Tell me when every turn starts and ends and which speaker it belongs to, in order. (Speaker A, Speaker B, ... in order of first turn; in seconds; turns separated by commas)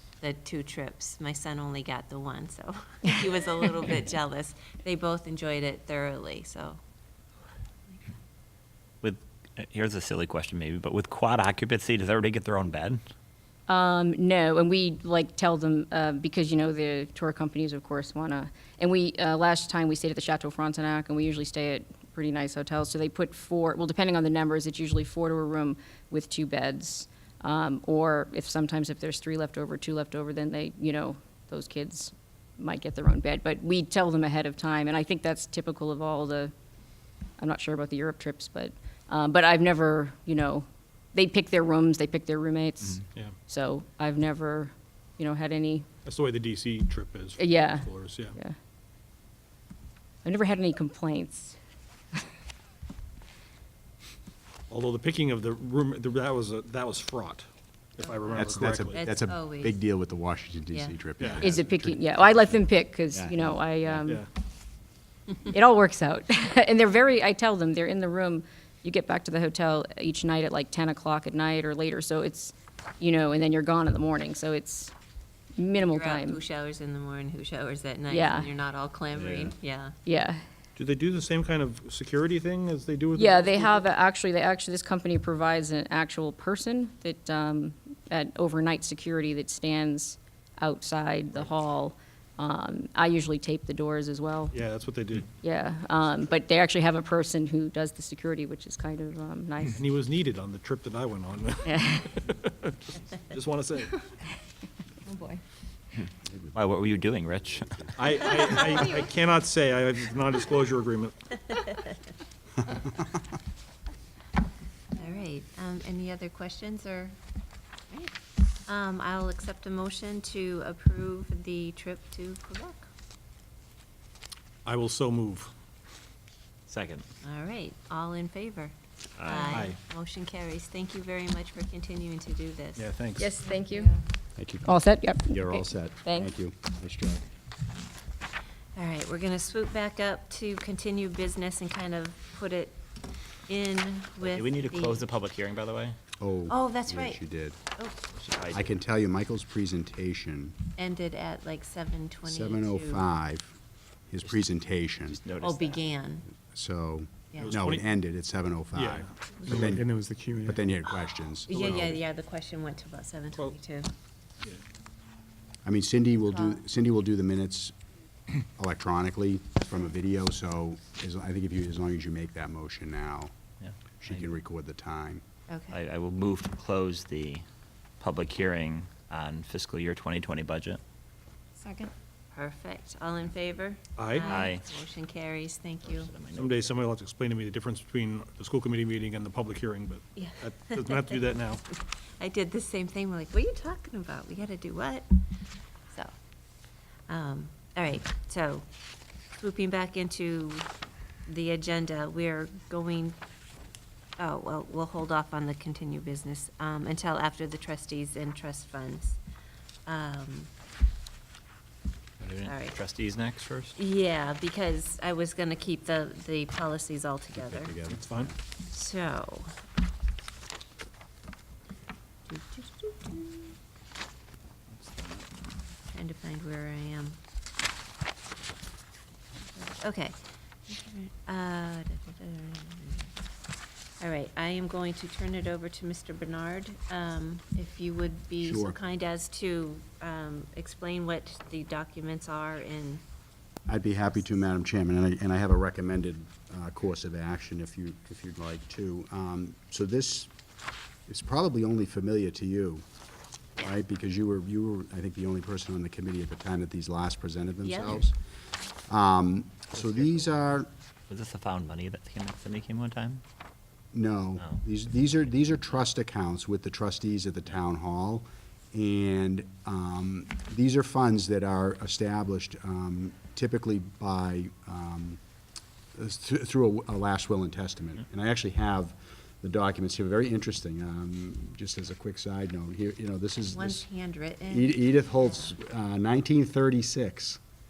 Speaker A: 0.2-6.8, Speaker B: 9.0-13.0, Speaker C: 13.7-36.5, Speaker C: 37.4-45.9, Speaker D: 46.0-48.4, Speaker C: 47.4-48.5, Speaker C: 50.2-51.6, Speaker D: 54.7-59.1, Speaker A: 58.0-59.8, Speaker E: 58.3-64.0, Speaker A: 60.7-61.0, Speaker D: 61.2-61.5, Speaker C: 61.4-64.2, Speaker C: 65.4-74.9, Speaker C: 75.6-76.4, Speaker A: 75.8-80.0, Speaker C: 78.1-78.5, Speaker B: 79.1-79.5, Speaker C: 80.0-80.4, Speaker D: 80.8-83.8, Speaker C: 83.1-94.5, Speaker D: 94.5-95.3, Speaker C: 95.4-99.8, Speaker D: 99.8-101.8, Speaker C: 101.6-102.3, Speaker D: 103.2-104.0, Speaker A: 105.1-105.3, Speaker E: 106.3-106.9, Speaker B: 106.5-107.8, Speaker E: 107.5-108.3, Speaker D: 108.0-111.2, Speaker E: 112.6-113.1, Speaker A: 114.9-117.2, Speaker A: 118.7-122.9, Speaker D: 124.6-125.5, Speaker B: 126.7-127.0, Speaker A: 127.2-132.8, Speaker B: 129.2-129.7, Speaker D: 129.4-129.8, Speaker D: 132.8-133.3, Speaker C: 133.2-134.0, Speaker A: 133.6-133.9, Speaker E: 134.4-134.7, Speaker C: 134.7-136.3, Speaker E: 135.2-137.3, Speaker A: 138.7-142.8, Speaker A: 143.5-145.1, Speaker B: 144.2-146.0, Speaker E: 146.2-147.6, Speaker A: 146.5-147.2, Speaker A: 147.8-148.0, Speaker B: 148.1-148.7, Speaker E: 148.5-150.6, Speaker A: 150.8-153.1, Speaker E: 152.2-153.6, Speaker E: 154.1-155.2, Speaker B: 155.1-155.9, Speaker A: 155.4-156.2, Speaker E: 156.4-162.0, Speaker A: 157.3-157.6, Speaker D: 157.4-157.9, Speaker D: 158.7-160.6, Speaker A: 161.5-163.9, Speaker E: 165.6-167.7, Speaker A: 166.2-166.6, Speaker E: 168.4-173.3, Speaker A: 169.6-169.8, Speaker B: 173.6-174.3, Speaker E: 174.0-175.2, Speaker A: 175.5-175.8, Speaker B: 175.7-177.4, Speaker B: 178.0-180.8, Speaker A: 181.7-186.1, Speaker D: 184.0-184.3, Speaker B: 184.2-184.7, Speaker B: 185.8-186.7, Speaker D: 186.3-191.6, Speaker A: 190.2-191.2, Speaker A: 192.2-195.1, Speaker A: 197.1-198.7, Speaker A: 199.4-200.7, Speaker A: 201.2-203.2, Speaker A: 204.2-209.2, Speaker A: 209.8-210.5, Speaker B: 212.2-213.7, Speaker A: 212.4-212.8, Speaker A: 213.8-217.7, Speaker E: 217.3-218.3, Speaker D: 217.9-218.3, Speaker A: 218.7-219.6, Speaker A: 222.3-223.5, Speaker B: 224.7-225.3, Speaker A: 225.9-227.2, Speaker A: 229.6-233.1, Speaker A: 234.0-243.0, Speaker E: 238.4-238.8, Speaker E: 243.7-250.3, Speaker E: 251.1-252.8, Speaker E: 253.6-258.2, Speaker A: 257.6-258.1, Speaker E: 258.9-260.7, Speaker B: 261.1-263.2, Speaker E: 263.9-275.2, Speaker E: 275.9-283.9, Speaker A: 283.5-285.5, Speaker E: 284.5-287.4